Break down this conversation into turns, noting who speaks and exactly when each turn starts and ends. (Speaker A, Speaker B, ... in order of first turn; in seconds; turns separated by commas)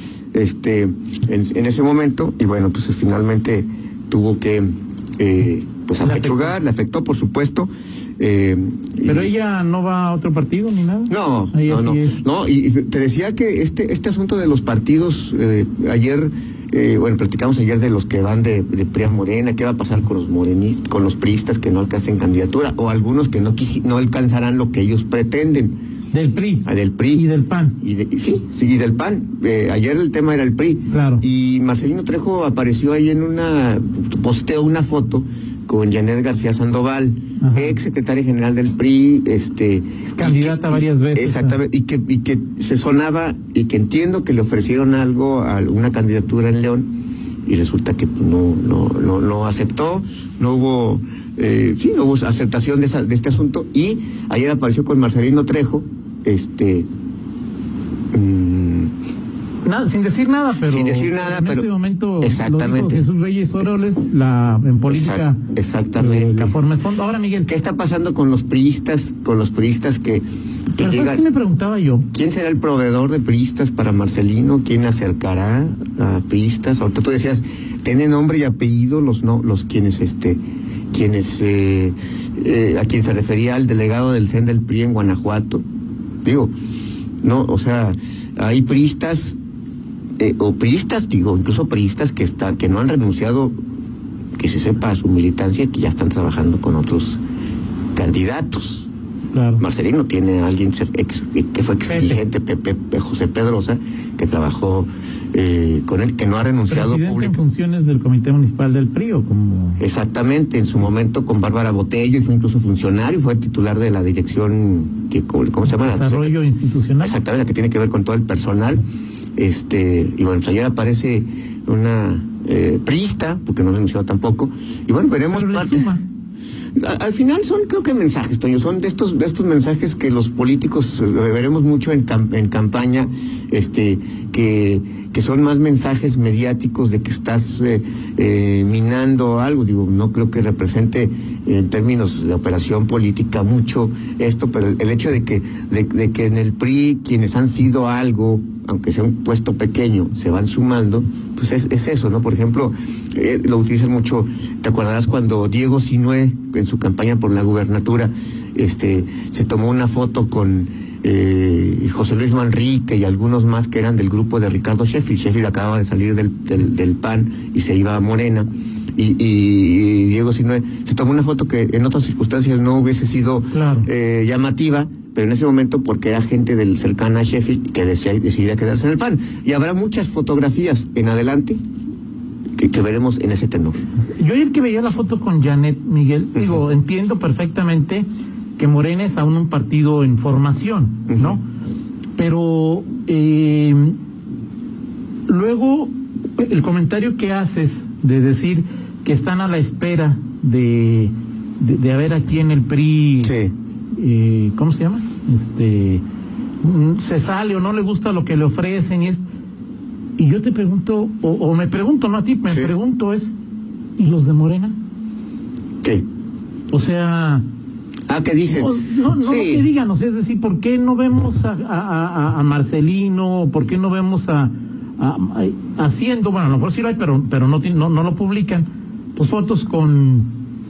Speaker A: 0.3-9.3, Speaker B: 6.0-6.5, Speaker B: 9.1-12.2, Speaker A: 11.1-25.8, Speaker B: 26.1-27.8, Speaker A: 26.6-27.2, Speaker A: 27.8-46.9, Speaker B: 30.9-31.2, Speaker B: 37.4-37.8, Speaker B: 40.0-41.6, Speaker A: 47.5-56.9, Speaker A: 58.1-58.9, Speaker B: 59.6-65.4, Speaker A: 60.6-61.7, Speaker A: 62.2-63.1, Speaker A: 64.9-66.6, Speaker B: 66.0-67.5, Speaker A: 67.5-70.2, Speaker A: 70.8-71.2, Speaker B: 70.8-72.1, Speaker A: 72.1-80.4, Speaker A: 80.9-85.6, Speaker A: 86.2-86.5, Speaker A: 87.2-89.4, Speaker A: 90.2-93.5, Speaker A: 94.4-97.2, Speaker A: 98.0-98.9, Speaker B: 99.3-99.6, Speaker A: 99.6-107.4, Speaker B: 101.9-102.2, Speaker B: 106.7-109.8, Speaker A: 109.8-116.3, Speaker B: 115.7-117.2, Speaker A: 117.0-118.8, Speaker A: 119.4-126.0, Speaker B: 125.3-126.0, Speaker A: 126.8-181.6, Speaker B: 173.5-173.9, Speaker A: 182.6-183.8, Speaker B: 184.2-188.1, Speaker A: 186.3-186.6, Speaker B: 188.6-191.4, Speaker A: 191.1-191.4, Speaker B: 192.2-194.0, Speaker B: 195.3-203.4, Speaker A: 203.2-203.5, Speaker B: 204.0-206.0, Speaker B: 206.6-209.2, Speaker B: 210.2-213.3, Speaker B: 214.0-214.7, Speaker B: 216.7-217.4, Speaker A: 218.1-219.7, Speaker B: 218.5-230.3